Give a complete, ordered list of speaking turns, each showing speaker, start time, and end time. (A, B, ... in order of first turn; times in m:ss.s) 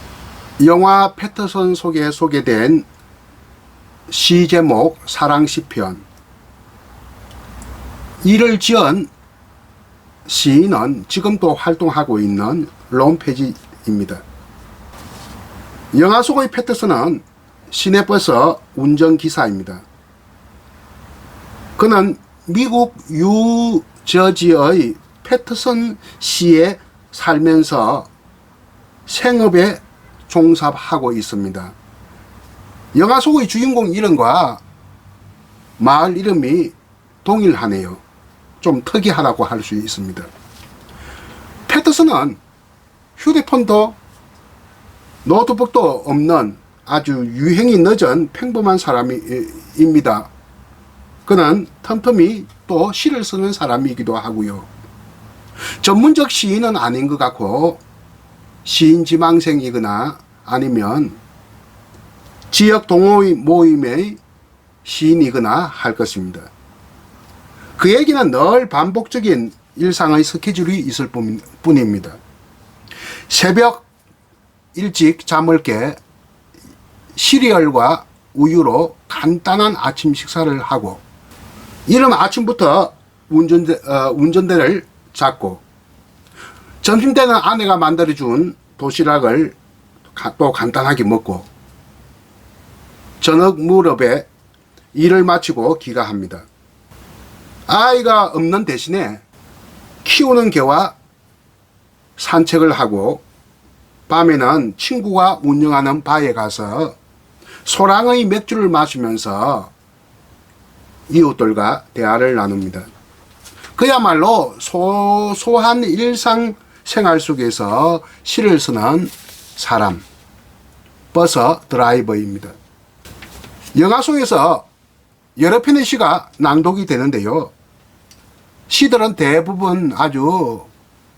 0:00.6-0:02.8 A
0:04.1-0:06.0 A
0:08.2-0:09.1 A
0:10.2-0:14.2 A
0:15.9-0:19.8 A
0:21.8-0:28.1 A
0:29.1-0:31.7 A
0:32.9-0:34.6 A
0:35.8-0:38.0 A
0:38.6-0:40.3 A
0:41.7-0:42.4 A
0:43.2-0:44.0 A
0:45.2-0:50.3 A
0:51.2-0:54.7 A
0:55.8-0:57.8 A
0:58.6-1:01.2 A
1:02.5-1:04.2 A
1:04.8-1:06.5 A
1:07.8-1:12.2 A
1:13.3-1:13.8 A
1:14.7-1:16.0 A
1:17.1-1:21.0 A
1:21.9-1:25.6 A
1:26.8-1:29.6 A
1:30.1-1:31.5 A
1:33.2-1:34.3 A
1:34.9-1:36.4 A
1:37.7-1:39.2 A
1:40.0-1:41.0 A
1:42.2-1:43.2 A
1:44.1-1:47.0 A
1:47.6-1:49.7 A
1:51.1-1:52.9 A
1:53.8-2:00.0 A
2:01.1-2:02.5 A
2:03.7-2:04.7 A
2:05.4-2:07.5 A
2:08.7-2:10.7 A